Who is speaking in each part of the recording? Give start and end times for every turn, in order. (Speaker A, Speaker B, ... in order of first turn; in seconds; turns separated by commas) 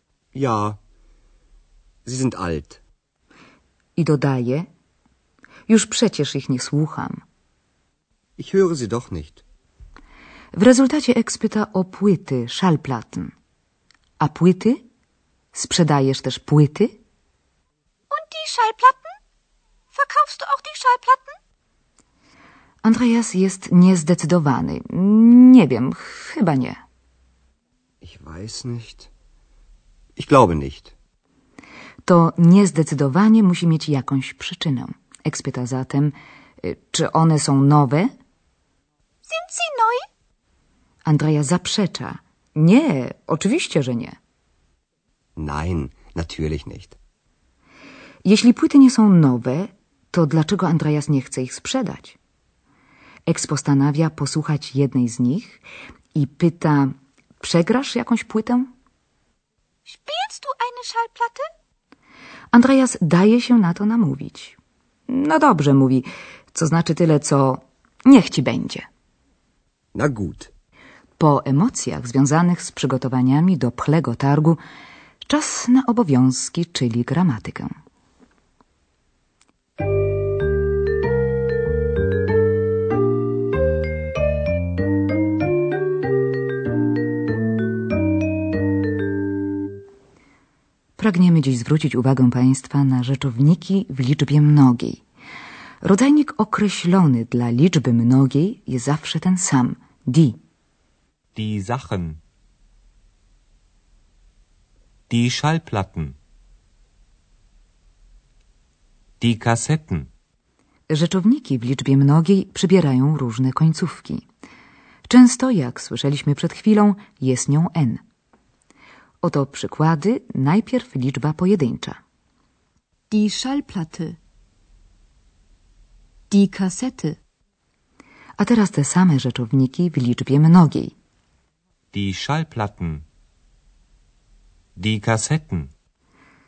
Speaker A: 0.3-0.8, Speaker A: 2.0-2.8, Speaker B: 4.0-4.7, Speaker B: 5.7-7.2, Speaker A: 8.4-9.4, Speaker B: 10.5-13.3, Speaker B: 14.2-14.8, Speaker B: 15.5-16.9, Speaker C: 18.1-19.2, Speaker C: 19.9-21.4, Speaker B: 22.8-26.8, Speaker A: 28.0-29.1, Speaker A: 30.1-30.9, Speaker B: 32.0-38.1, Speaker C: 39.2-40.0, Speaker B: 41.0-44.1, Speaker A: 45.4-47.0, Speaker B: 48.2-52.2, Speaker B: 53.3-55.6, Speaker B: 56.1-58.7, Speaker C: 59.9-61.5, Speaker B: 62.5-64.6, Speaker B: 65.1-68.9, Speaker A: 69.9-70.5, Speaker B: 71.2-74.6, Speaker B: 75.2-77.7, Speaker B: 91.0-95.0, Speaker B: 95.8-100.4, Speaker D: 101.3-102.2, Speaker D: 105.1-106.2, Speaker D: 109.2-110.1, Speaker B: 110.9-114.2, Speaker B: 115.1-118.0, Speaker B: 119.2-122.0, Speaker E: 123.1-124.2, Speaker E: 126.3-127.2, Speaker B: 128.4-130.9, Speaker D: 131.9-133.0, Speaker D: 134.8-135.7